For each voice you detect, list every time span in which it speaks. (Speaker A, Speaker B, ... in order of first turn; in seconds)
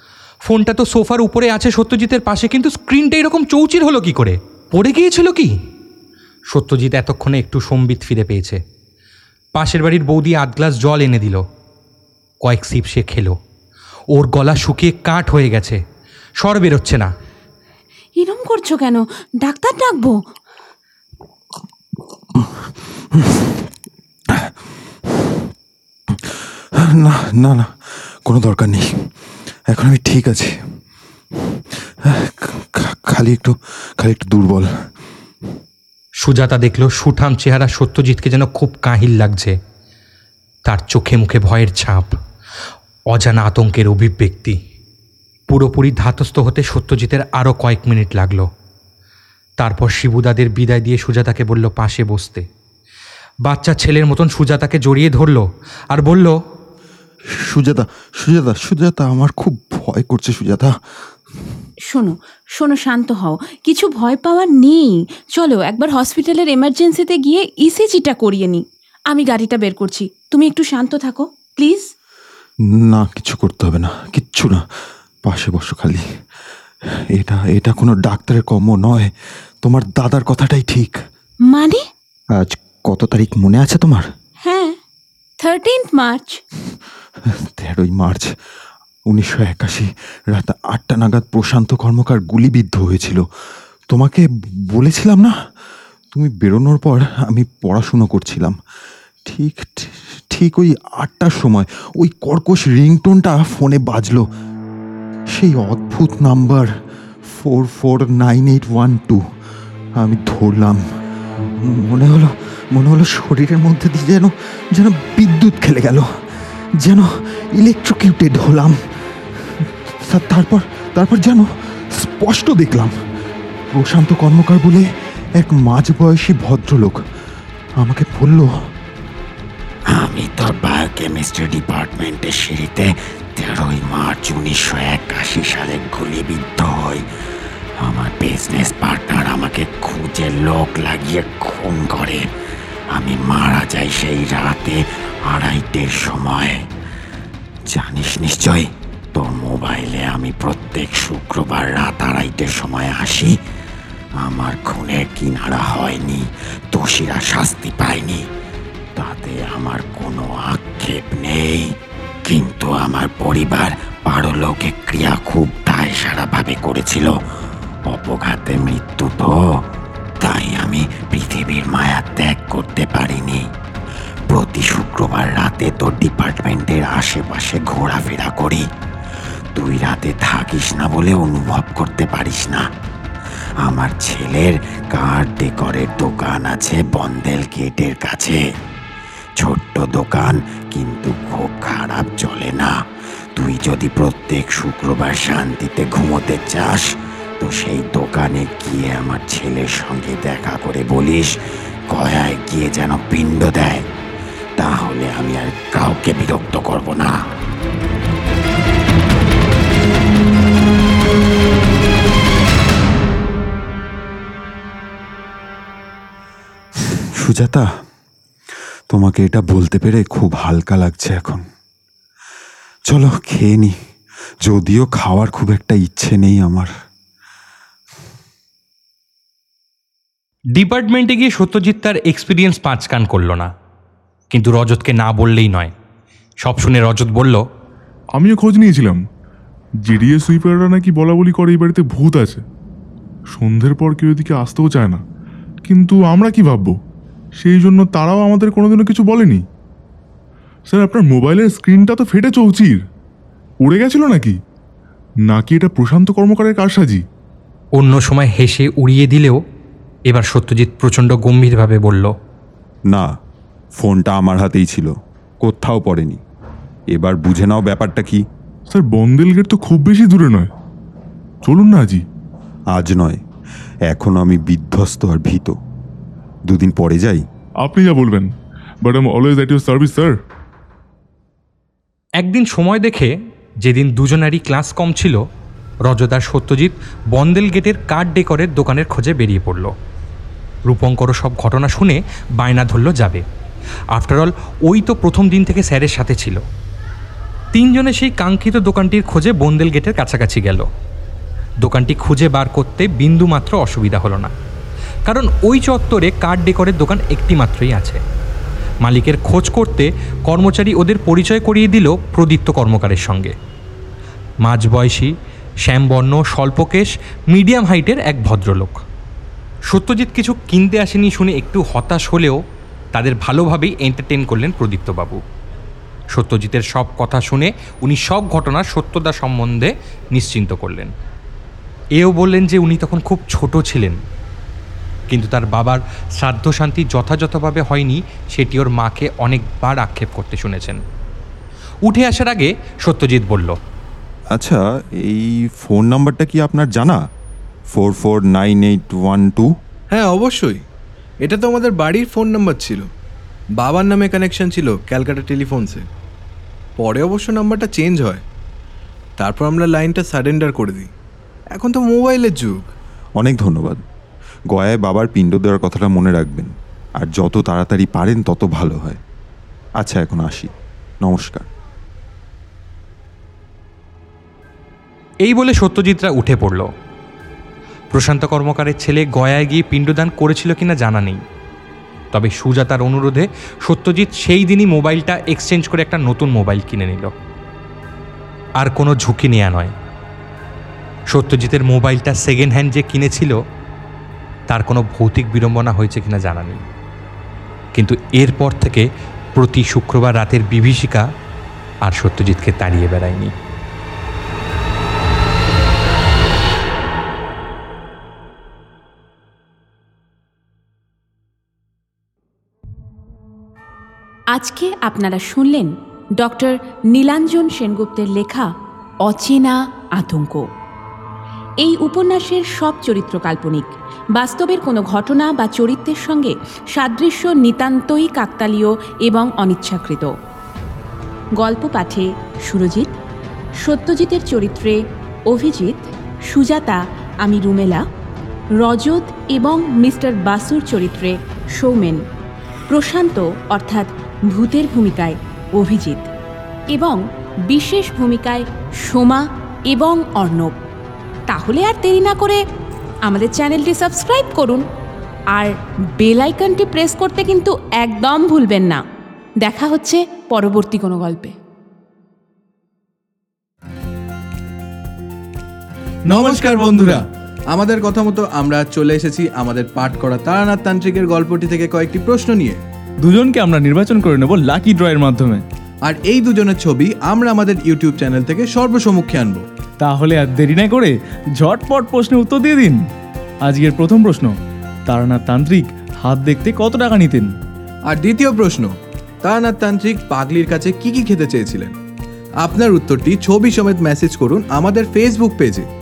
Speaker A: 0.5-5.5, 6.5-8.6, 9.5-11.4, 12.4-13.4, 14.1-15.8, 16.4-17.1, 36.2-39.5, 40.6-42.1, 43.1-44.6, 45.5-48.5, 49.6-52.5, 53.4-56.4, 230.5-233.5, 234.3-235.7, 236.4-237.4, 257.7-259.4, 260.1-262.1, 282.2-285.2, 285.9-289.7, 290.7-293.2, 293.9-296.4, 297.5-300.6, 301.6-304.3, 305.1-308.0, 308.8-313.3, 314.4-315.1, 315.6-318.8, 319.7-322.4, 322.9-325.2, 326.1-330.9, 332.0-334.0, 335.1-340.8, 341.8-343.6, 375.2-376.7, 377.9-381.2, 382.1-387.1, 388.6-389.7, 391.1-393.4, 394.5-396.6, 397.7-401.0, 401.8-403.3
Speaker B: 18.1-20.2, 61.9-71.9, 81.5-81.8, 84.4-84.8, 85.4-86.4, 414.3-418.5, 419.0-420.5, 421.6-430.1, 431.4-432.9, 433.6-437.8, 438.6-442.0, 442.7-446.1, 446.7-450.6, 451.3-452.4, 453.1-454.6, 455.3-458.8, 459.4-461.3
Speaker C: 22.3-23.6, 24.3-25.4, 26.1-27.7, 28.2-28.9, 29.7-30.5, 31.5-34.7, 57.4-60.7, 72.7-74.6, 75.2-76.0, 77.1-79.1, 79.6-81.0, 82.3-84.1, 87.5-88.3, 89.1-93.2, 93.9-95.3, 96.1-98.6, 99.3-104.2, 105.3-106.7, 107.4-109.2, 110.0-110.8, 111.6-116.1, 116.8-118.8, 119.5-121.5, 122.0-122.9, 123.7-124.9, 125.4-127.0, 127.8-128.5, 216.8-217.7, 218.9-221.4, 222.9-223.7, 224.4-226.7, 263.8-266.2, 266.9-268.2, 272.7-273.2, 273.9-275.6, 276.5-277.2, 344.3-347.0, 347.7-349.5, 363.2-363.8, 364.5-369.0, 369.8-370.5, 371.0-371.5
Speaker D: 129.9-137.0, 137.8-142.2, 142.9-146.6, 147.7-153.3, 154.2-158.2, 158.9-161.7, 162.2-167.1, 167.9-169.4, 170.2-173.4, 174.3-178.7, 179.5-182.6, 183.6-188.4, 189.4-192.7, 193.3-196.9, 197.4-201.3, 201.9-203.8, 204.6-207.1
Speaker E: 238.2-239.0, 239.9-242.4, 243.3-245.0, 245.7-246.8, 247.4-249.4, 250.7-252.8, 253.6-254.4, 255.3-257.0, 268.7-270.5, 271.4-272.0, 277.6-278.3, 278.8-280.1
Speaker F: 349.9-350.6, 351.2-352.9, 353.6-355.8, 356.8-358.2, 359.2-360.9, 361.5-362.6, 466.1-467.0, 467.5-472.6, 475.9-479.4, 487.9-491.7, 492.4-495.7
Speaker G: 466.1-467.0, 473.0-475.4, 479.8-482.8, 483.4-484.3, 484.9-487.3